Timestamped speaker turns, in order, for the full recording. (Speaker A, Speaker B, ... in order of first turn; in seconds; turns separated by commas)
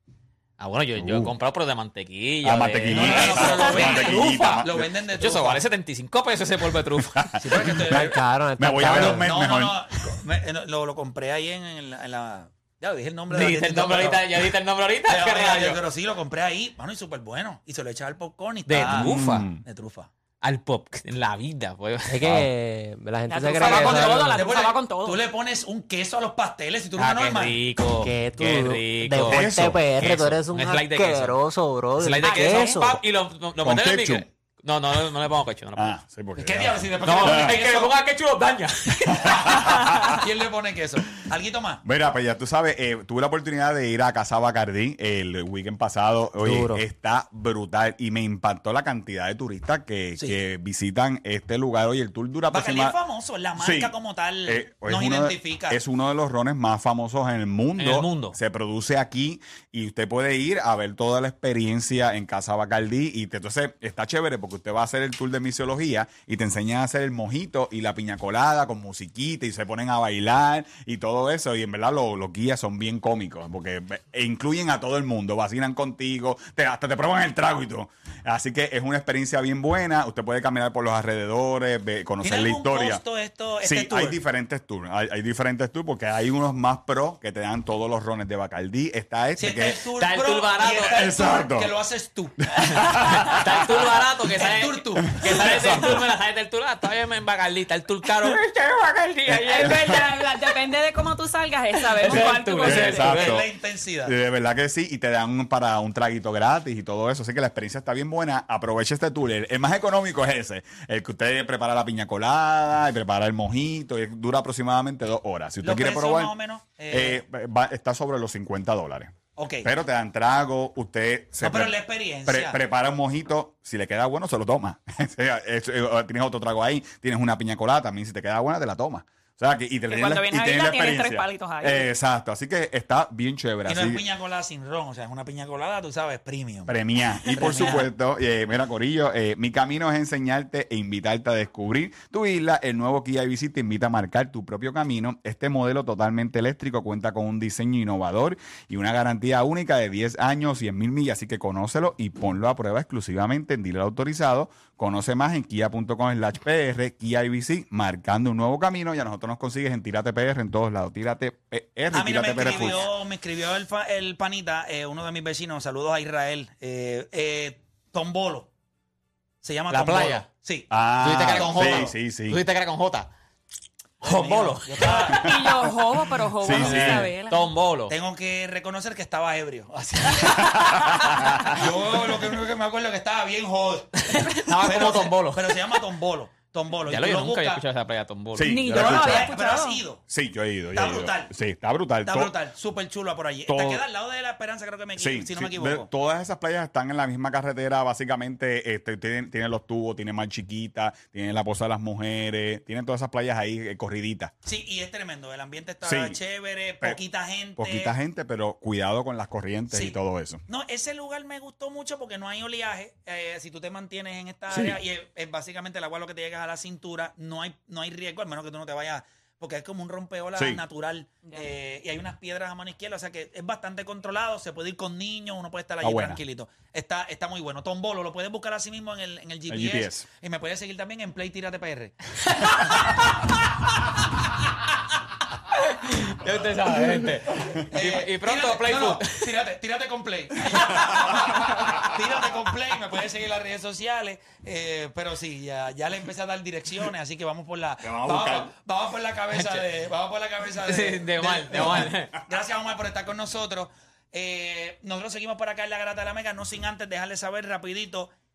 Speaker A: 0.6-4.5, Speaker B: 0.9-1.4, Speaker B: 2.4-4.9, Speaker C: 2.9-5.7, Speaker A: 5.1-7.4, Speaker B: 7.1-9.9, Speaker C: 7.4-8.2, Speaker D: 7.6-9.3, Speaker C: 9.1-14.5, Speaker A: 13.3-15.8, Speaker C: 15.0-20.1, Speaker A: 18.6-19.5, Speaker B: 18.8-19.6, Speaker A: 20.4-22.3, Speaker D: 22.1-24.4, Speaker E: 23.3-25.2, Speaker A: 23.4-24.1, Speaker C: 23.6-27.6, Speaker A: 26.9-31.4, Speaker D: 27.9-33.0, Speaker B: 29.3-29.8, Speaker A: 32.0-36.0, Speaker E: 32.2-32.7, Speaker B: 33.6-34.3, Speaker B: 35.7-37.6, Speaker C: 36.4-37.9, Speaker A: 37.0-40.0, Speaker B: 39.2-40.2, Speaker C: 39.2-41.8, Speaker B: 41.8-53.0, Speaker D: 46.4-46.8, Speaker C: 52.5-55.8, Speaker B: 53.5-83.0, Speaker A: 57.8-58.4, Speaker C: 82.2-84.2, Speaker B: 83.6-89.8, Speaker C: 89.4-93.1, Speaker A: 90.0-91.0, Speaker B: 90.9-91.7, Speaker B: 92.5-93.7, Speaker A: 92.8-100.6, Speaker C: 93.9-95.6, Speaker B: 95.1-96.0, Speaker E: 99.4-103.2, Speaker B: 99.5-100.0, Speaker A: 101.7-103.4, Speaker B: 102.0-103.5, Speaker C: 103.1-104.1, Speaker B: 104.0-116.3, Speaker C: 115.6-117.2, Speaker B: 116.9-134.1, Speaker C: 119.3-119.7, Speaker C: 121.4-122.6, Speaker E: 129.9-131.9, Speaker C: 133.7-136.8, Speaker B: 136.7-162.9, Speaker C: 137.3-137.9, Speaker C: 161.9-168.5, Speaker A: 162.4-162.8, Speaker C: 169.4-170.7, Speaker A: 169.7-170.3, Speaker B: 170.7-172.4, Speaker A: 171.0-173.1, Speaker C: 171.2-171.9, Speaker A: 174.0-175.2, Speaker C: 174.0-175.3, Speaker B: 175.0-177.1, Speaker E: 175.0-177.5, Speaker A: 176.5-178.0, Speaker C: 177.9-187.6, Speaker B: 180.5-181.4, Speaker A: 184.1-185.6, Speaker A: 186.9-188.6, Speaker B: 188.3-189.3, Speaker E: 188.4-189.8, Speaker C: 188.7-190.0, Speaker B: 190.1-192.3, Speaker C: 190.7-191.3, Speaker C: 192.0-195.9, Speaker B: 193.5-193.8, Speaker B: 194.9-204.3, Speaker C: 204.4-207.9, Speaker B: 205.8-206.2, Speaker B: 207.6-210.4, Speaker C: 209.7-233.0, Speaker B: 214.5-214.8, Speaker B: 220.3-220.6, Speaker B: 225.8-226.2, Speaker B: 229.5-230.1, Speaker A: 235.7-239.3, Speaker C: 237.5-258.1, Speaker B: 240.5-240.9, Speaker B: 247.8-248.5, Speaker A: 249.3-249.6, Speaker A: 250.6-252.1, Speaker B: 251.5-251.9